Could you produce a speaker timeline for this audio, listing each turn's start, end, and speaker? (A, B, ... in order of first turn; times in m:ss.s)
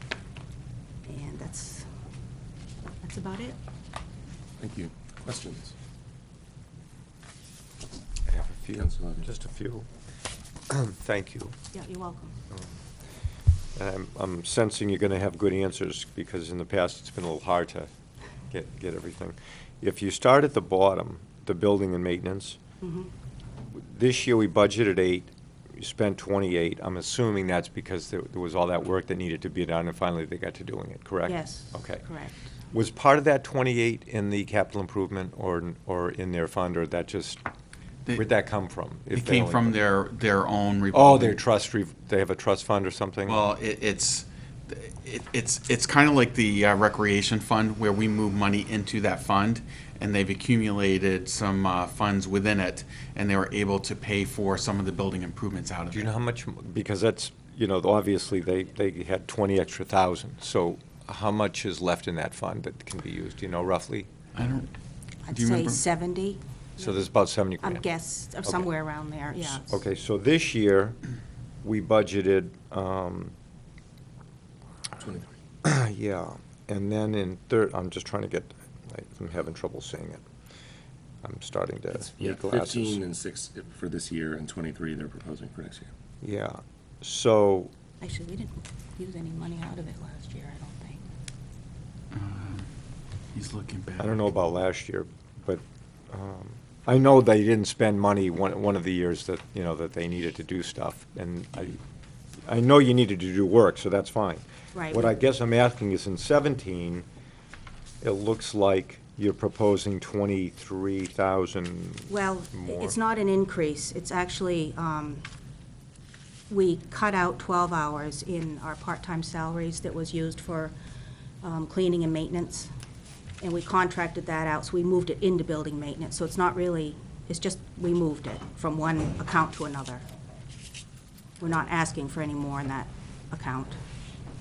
0:01.1-0:01.9 A
0:03.0-0:03.6 A
0:04.6-0:05.7 B
0:08.3-0:09.9 C
0:08.8-0:09.3 B
0:10.7-0:11.6 C
0:11.7-0:12.4 A
0:13.8-0:17.9 C
0:18.5-0:22.6 C
0:22.8-0:23.1 A
0:23.7-0:32.1 C
0:31.3-0:32.4 A
0:32.7-0:37.4 C
0:38.2-0:39.8 C
0:39.1-0:41.4 D
0:40.9-0:43.4 C
0:43.3-0:56.1 D
0:55.9-1:04.1 C
1:04.4-1:04.7 D
1:05.3-1:07.0 A
1:05.3-1:05.8 D
1:06.8-1:07.8 C
1:07.6-1:09.8 A
1:09.5-1:11.0 C
1:11.6-1:13.4 C
1:15.0-1:15.3 B
1:15.6-1:20.2 C
1:21.2-1:23.0 C
1:22.0-1:25.9 B
1:26.2-1:27.7 C
1:28.0-1:31.0 A
1:32.1-1:32.7 D
1:33.3-1:34.2 D
1:34.0-1:41.8 C
1:42.5-1:47.1 C
1:44.7-1:45.1 A
1:48.0-1:53.0 C
1:52.1-1:55.2 A
1:56.5-2:00.8 A
2:01.4-2:02.7 A
2:03.4-2:10.0 A
2:11.4-2:13.8 A